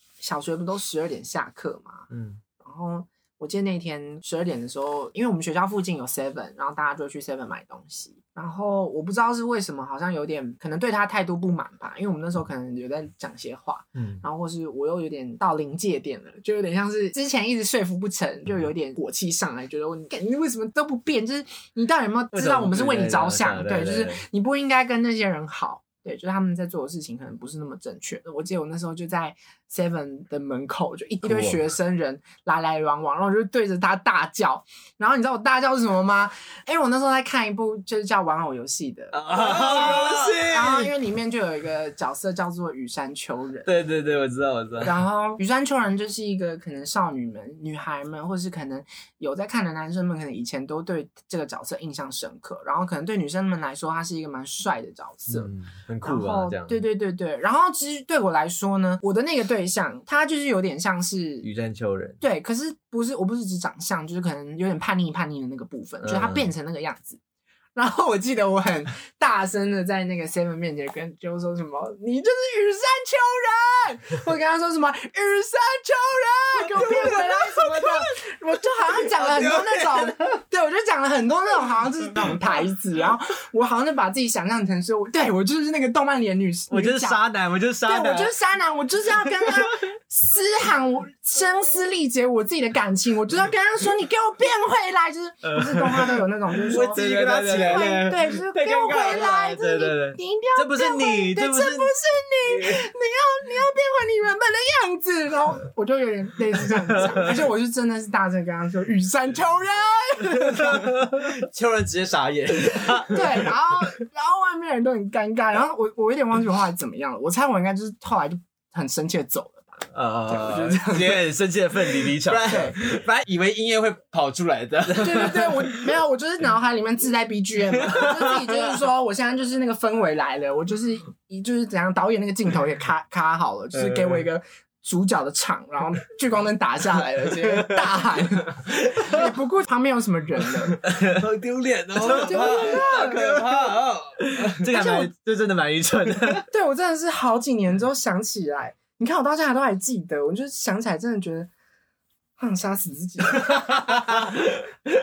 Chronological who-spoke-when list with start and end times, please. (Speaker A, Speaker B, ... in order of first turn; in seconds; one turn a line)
Speaker A: 0.2-2.1
Speaker A: 2.6-43.7
Speaker B: 22.3-24.2
Speaker B: 31.2-31.6
Speaker B: 39.2-40.5
Speaker C: 39.3-40.9
Speaker B: 43.6-44.9
Speaker A: 44.8-55.5
Speaker B: 55.3-56.8
Speaker A: 56.0-61.5
Speaker B: 61.4-62.2
Speaker A: 62.2-67.2
Speaker B: 66.1-66.4
Speaker A: 67.7-87.2
Speaker B: 86.7-88.3
Speaker A: 87.8-110.9
Speaker B: 89.4-89.7
Speaker B: 95.4-101.9
Speaker C: 96.7-98.1
Speaker C: 98.9-99.3
Speaker B: 102.5-102.8
Speaker C: 111.0-113.1
Speaker B: 112.8-113.0
Speaker A: 113.0-121.2
Speaker B: 119.9-122.9
Speaker C: 122.1-125.7
Speaker A: 122.5-122.8
Speaker A: 125.0-140.8
Speaker C: 140.8-144.7
Speaker B: 141.9-146.5
Speaker A: 142.0-143.3
Speaker A: 144.7-145.1
Speaker A: 146.5-151.5
Speaker A: 152.4-154.3